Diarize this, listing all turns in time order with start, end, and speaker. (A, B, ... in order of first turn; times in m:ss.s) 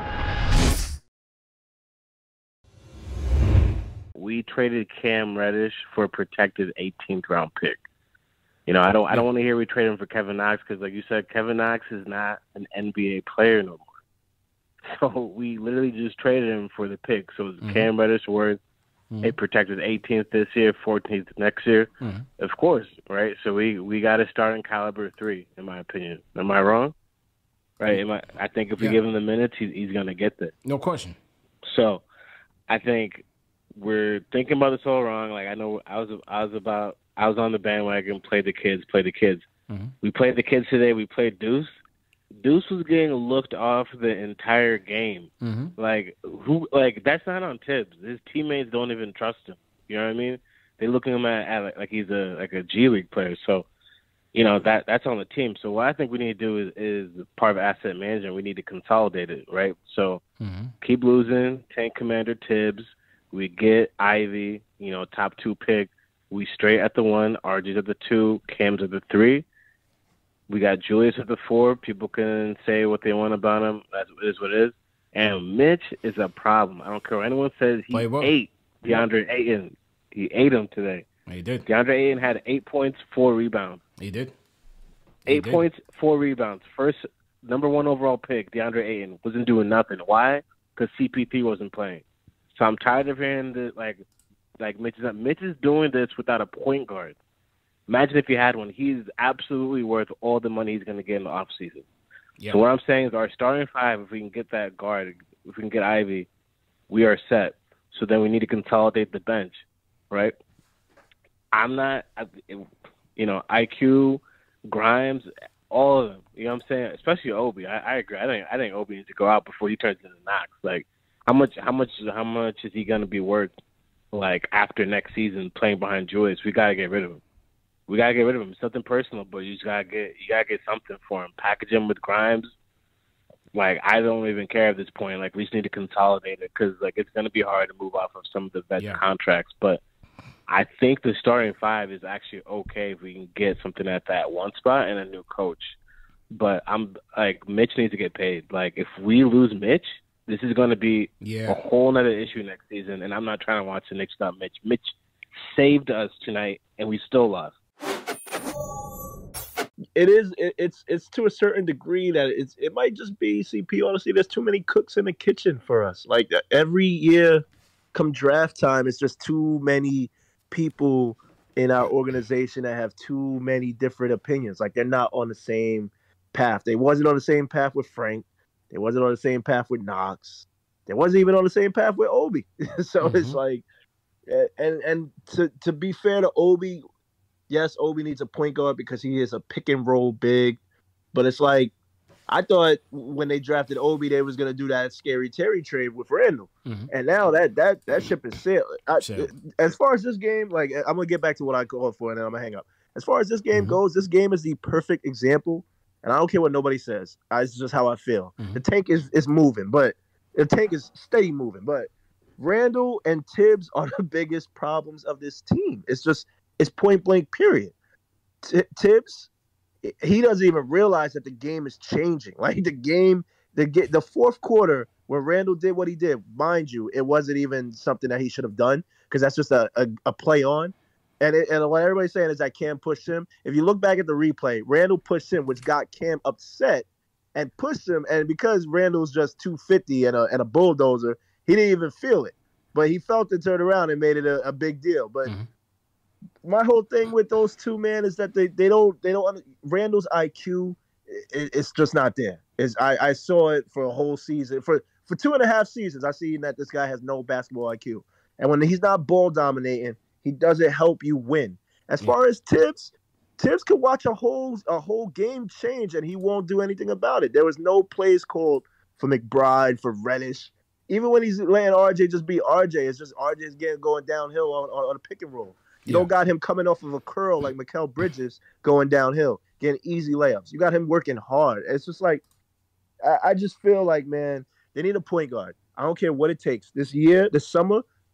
0:04.2-0:07.8 A
0:08.7-0:13.9 A
0:14.9-0:18.6 A
0:17.6-0:17.9 B
0:19.2-0:26.9 A
0:27.8-0:30.5 A
0:30.6-0:31.2 B
0:31.7-0:32.0 A
0:32.7-0:33.2 A
0:33.8-0:39.4 A
0:39.7-0:39.9 B
0:40.0-0:41.7 A
0:42.4-0:53.7 A
0:45.4-0:45.7 B
0:54.3-1:00.2 A
1:00.4-1:00.7 B
1:00.8-1:09.5 A
1:10.5-1:21.1 A
1:17.9-1:18.3 B
1:21.3-1:21.7 B
1:21.7-1:23.8 A
1:24.0-1:24.4 B
1:25.3-1:25.7 B
1:25.3-1:34.0 A
1:34.6-1:37.2 A
1:37.9-1:41.9 A
1:42.5-1:46.3 A
1:46.9-1:50.4 A
1:51.5-2:03.6 A
2:04.1-2:07.2 A
2:07.9-2:12.5 A
2:13.5-2:19.8 A
2:18.8-2:19.0 B
2:20.5-2:25.8 A
2:26.4-2:35.0 A
2:31.2-2:31.6 B
2:35.5-2:37.5 A
2:40.0-2:47.4 C
2:47.9-3:03.6 C
3:03.0-3:03.4 B
3:04.3-3:06.8 C
3:07.5-3:10.6 C
3:11.1-3:11.7 C
3:12.3-3:37.7 C
3:19.0-3:19.3 B
3:23.5-3:23.8 B
3:38.4-3:39.3 C
3:39.8-4:05.3 C
4:06.4-4:42.2 C
4:43.0-4:47.8 C